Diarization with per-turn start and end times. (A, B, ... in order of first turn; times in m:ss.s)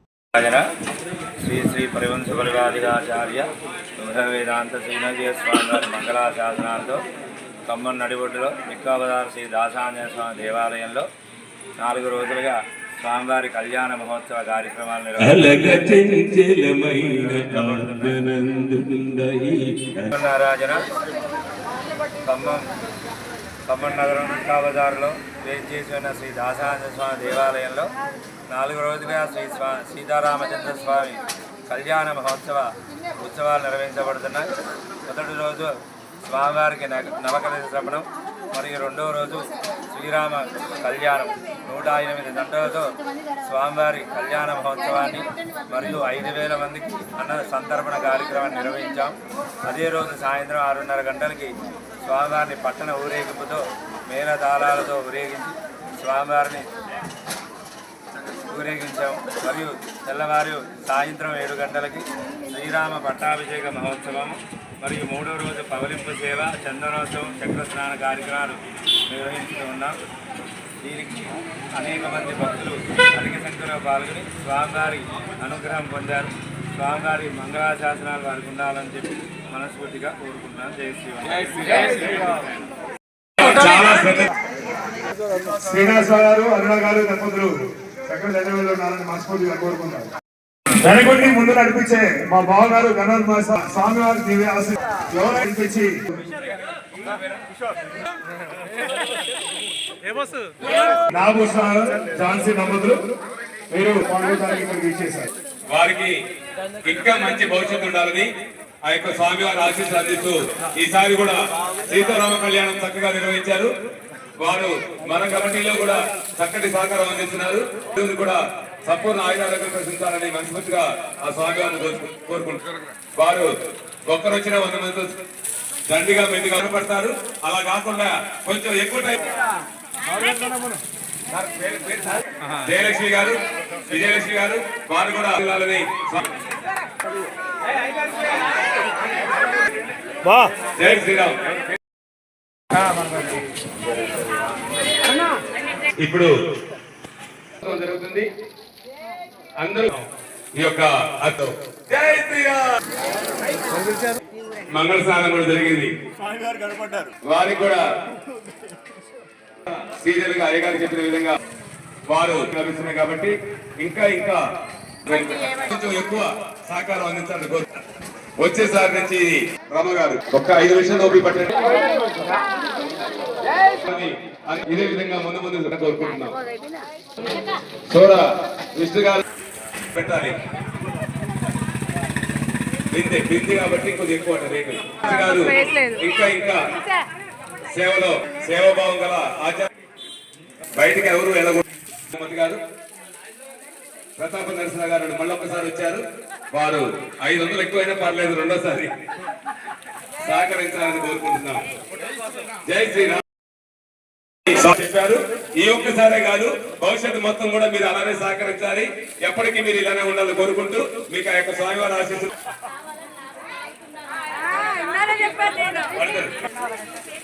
0:00.3-0:00.7 A
0:01.4-0:07.0 A
0:07.7-0:11.1 A
0:11.8-0:16.3 A
0:15.2-0:17.0 B
0:17.0-0:18.2 A
0:17.8-0:18.6 B
0:19.2-0:19.8 B
0:20.1-0:20.9 A
0:22.2-0:22.7 A
0:23.7-0:27.9 A
0:28.5-0:34.5 A
0:35.0-0:56.6 A
0:58.5-1:10.0 A
1:10.8-1:22.5 A
1:23.4-1:24.3 B
1:23.4-1:24.1 A
1:25.5-1:27.5 C
1:28.1-1:30.1 C
1:30.8-1:36.1 C
1:41.1-1:43.0 C
1:43.7-1:45.3 C
1:45.7-1:46.1 B
1:46.8-1:48.3 B
1:48.8-1:53.7 B
1:54.4-2:03.5 B
2:04.1-2:05.1 B
2:05.9-2:09.2 B
2:10.2-2:10.7 C
2:11.3-2:13.4 B
2:13.9-2:16.3 B
2:20.8-2:21.4 B
2:26.0-2:26.3 B
2:27.6-2:28.3 B
2:29.6-2:32.8 B
2:34.7-2:35.9 B
2:37.3-2:37.8 B
2:39.6-2:41.4 B
2:42.1-2:44.4 B
2:45.0-2:47.8 B
2:48.4-2:51.8 B
2:53.7-2:56.4 B
2:57.9-2:59.2 B
2:59.9-3:00.4 B
3:02.9-3:06.6 B
3:07.7-3:09.7 B
3:10.8-3:12.6 B
3:14.2-3:18.9 B
3:20.2-3:21.6 B
3:22.6-3:23.2 B
3:24.5-3:32.3 B
3:35.8-3:36.3 B